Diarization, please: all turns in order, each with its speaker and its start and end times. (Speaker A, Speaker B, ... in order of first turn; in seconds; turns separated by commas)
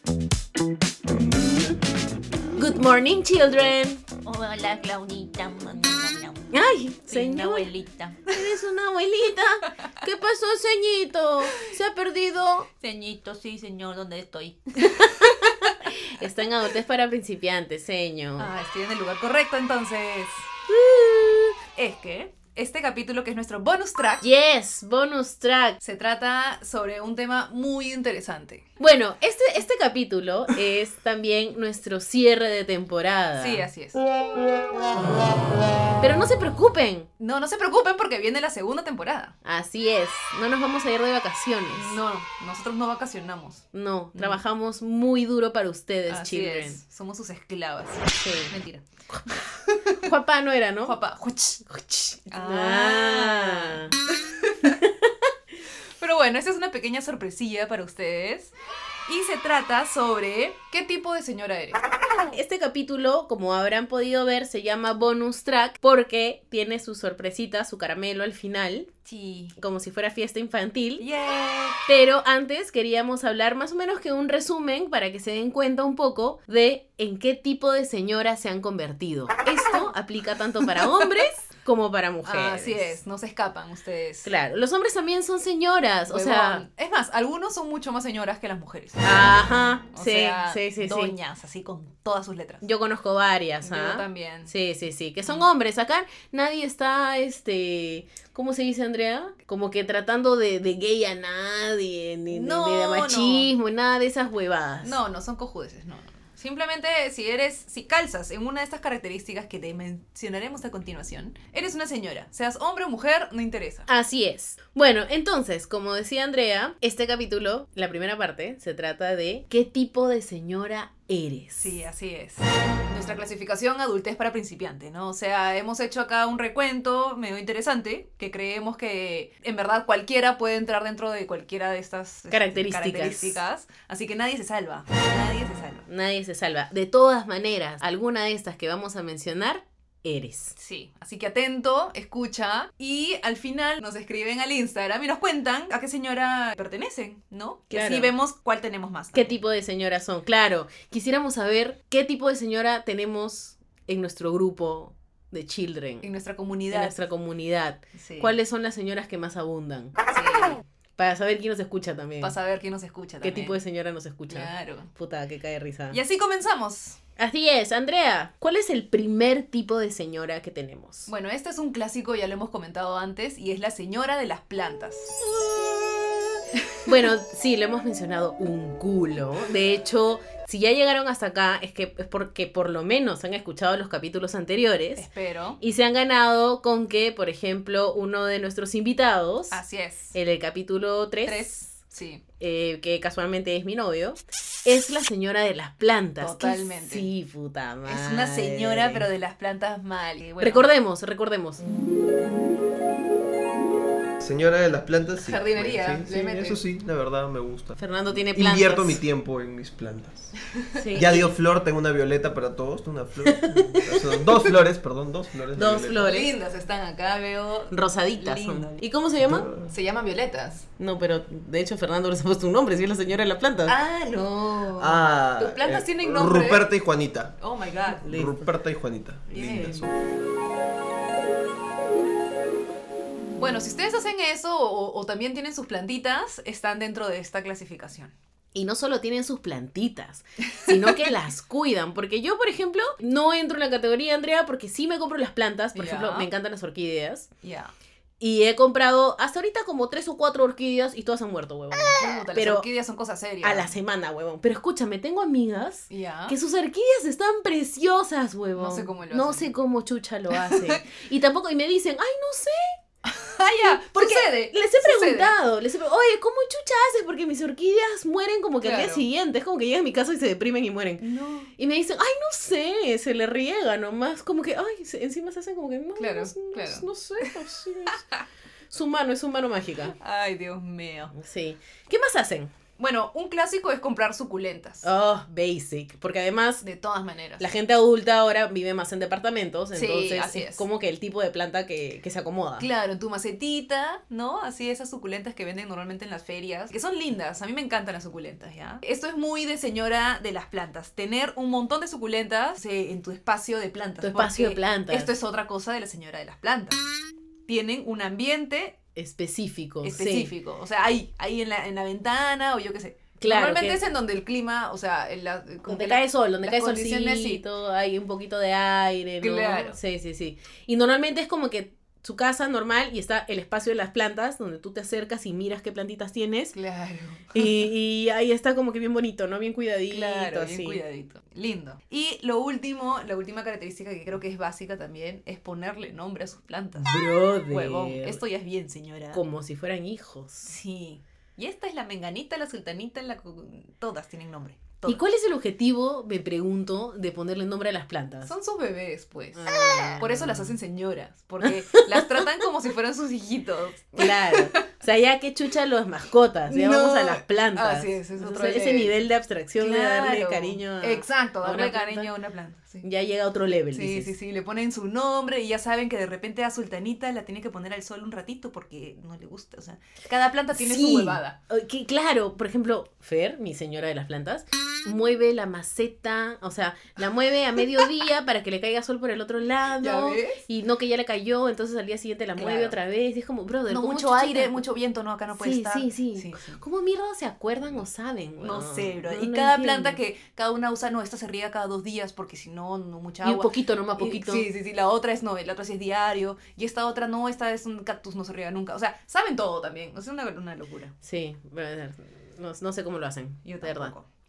Speaker A: 2.5-4.0, Speaker B: 4.2-6.4, Speaker A: 6.5-7.7, Speaker B: 7.0-8.2, Speaker A: 8.3-12.7, Speaker B: 12.8-14.6, Speaker A: 14.8-18.5, Speaker C: 14.8-15.1, Speaker C: 18.4-20.5, Speaker A: 20.7-21.6, Speaker C: 21.7-24.2, Speaker A: 24.2-25.8, Speaker C: 25.8-28.6, Speaker A: 28.8-33.6, Speaker C: 33.4-34.0, Speaker A: 36.0-37.1, Speaker C: 37.2-39.3, Speaker A: 39.4-42.0, Speaker C: 41.7-44.4, Speaker A: 43.7-46.8, Speaker C: 46.1-48.9, Speaker A: 48.2-48.5, Speaker A: 49.1-51.0, Speaker C: 49.7-50.0, Speaker C: 50.8-51.6, Speaker A: 51.6-53.9, Speaker C: 52.3-54.8, Speaker A: 54.8-55.1, Speaker C: 56.0-58.5, Speaker C: 59.1-61.8, Speaker A: 62.1-68.9, Speaker C: 69.0-69.5, Speaker A: 69.6-71.0, Speaker C: 71.0-71.8, Speaker A: 71.9-83.0, Speaker C: 82.2-84.3, Speaker A: 84.2-86.6, Speaker C: 86.1-89.3, Speaker A: 89.0-91.1, Speaker C: 89.9-92.7, Speaker A: 92.6-105.0, Speaker C: 93.6-94.5, Speaker C: 102.3-103.5, Speaker C: 104.8-113.9, Speaker A: 113.9-121.7, Speaker C: 121.5-135.8, Speaker A: 132.3-133.4, Speaker A: 135.9-140.5, Speaker C: 140.6-149.3, Speaker A: 147.7-148.1, Speaker A: 149.1-156.0, Speaker C: 156.0-157.0, Speaker A: 156.7-159.9, Speaker C: 157.9-158.3, Speaker C: 160.1-160.6, Speaker A: 161.0-162.3, Speaker C: 162.2-163.6, Speaker A: 163.2-166.0, Speaker C: 164.3-164.9, Speaker C: 165.9-167.0, Speaker A: 167.2-171.1, Speaker C: 171.1-175.2, Speaker C: 176.5-176.8, Speaker A: 176.8-185.1, Speaker C: 184.9-185.6, Speaker A: 185.6-189.6, Speaker C: 189.5-190.1, Speaker A: 190.1-191.5, Speaker C: 191.2-192.2, Speaker A: 192.4-199.1, Speaker C: 196.2-197.1, Speaker C: 197.8-200.7, Speaker A: 200.4-201.6, Speaker D: 204.2-216.0, Speaker C: 205.2-206.6, Speaker A: 207.8-209.0, Speaker A: 210.7-211.3, Speaker A: 213.2-214.5, Speaker A: 215.5-216.3, Speaker C: 216.0-218.8, Speaker A: 217.7-219.5, Speaker D: 219.2-219.7, Speaker C: 219.7-220.7, Speaker A: 220.8-223.8, Speaker C: 223.7-226.7, Speaker D: 224.8-227.4, Speaker C: 227.4-228.1, Speaker A: 228.0-228.4, Speaker D: 228.1-229.9, Speaker C: 229.3-229.9, Speaker C: 233.4-238.1, Speaker A: 238.5-247.3, Speaker C: 240.5-241.1, Speaker C: 245.7-246.3, Speaker C: 247.4-247.7, Speaker A: 248.2-252.7, Speaker C: 251.9-253.7, Speaker A: 253.4-262.8, Speaker C: 255.9-256.4, Speaker C: 258.6-259.5, Speaker C: 260.3-260.8, Speaker C: 263.0-265.4, Speaker A: 263.6-271.0, Speaker C: 268.6-269.0, Speaker C: 271.0-271.5, Speaker A: 271.6-278.1, Speaker C: 276.0-277.4, Speaker A: 278.7-279.9, Speaker C: 279.9-281.1, Speaker A: 281.1-282.5, Speaker C: 282.8-284.9, Speaker A: 284.8-286.6, Speaker C: 286.6-287.5, Speaker A: 287.4-292.7, Speaker C: 289.7-290.6, Speaker C: 292.6-306.8, Speaker A: 304.0-305.1, Speaker C: 307.5-308.7, Speaker A: 308.9-310.3, Speaker C: 309.8-317.4, Speaker A: 313.2-313.8, Speaker A: 315.7-326.6, Speaker C: 319.2-319.8, Speaker C: 326.5-327.6, Speaker A: 327.3-330.8, Speaker C: 329.9-339.2, Speaker A: 336.8-338.2, Speaker A: 339.1-340.5, Speaker C: 340.4-345.0, Speaker A: 344.9-348.3, Speaker C: 348.2-354.6, Speaker A: 349.3-350.5, Speaker A: 351.7-352.2, Speaker A: 354.0-362.1, Speaker C: 356.5-358.9, Speaker C: 359.6-362.9, Speaker A: 362.8-364.1, Speaker C: 363.7-371.4, Speaker A: 370.5-384.6, Speaker C: 379.8-380.4, Speaker C: 382.4-382.8, Speaker C: 383.7-386.6, Speaker A: 385.4-390.0, Speaker C: 388.4-400.9, Speaker A: 393.2-394.5, Speaker A: 401.0-403.9, Speaker C: 403.4-404.1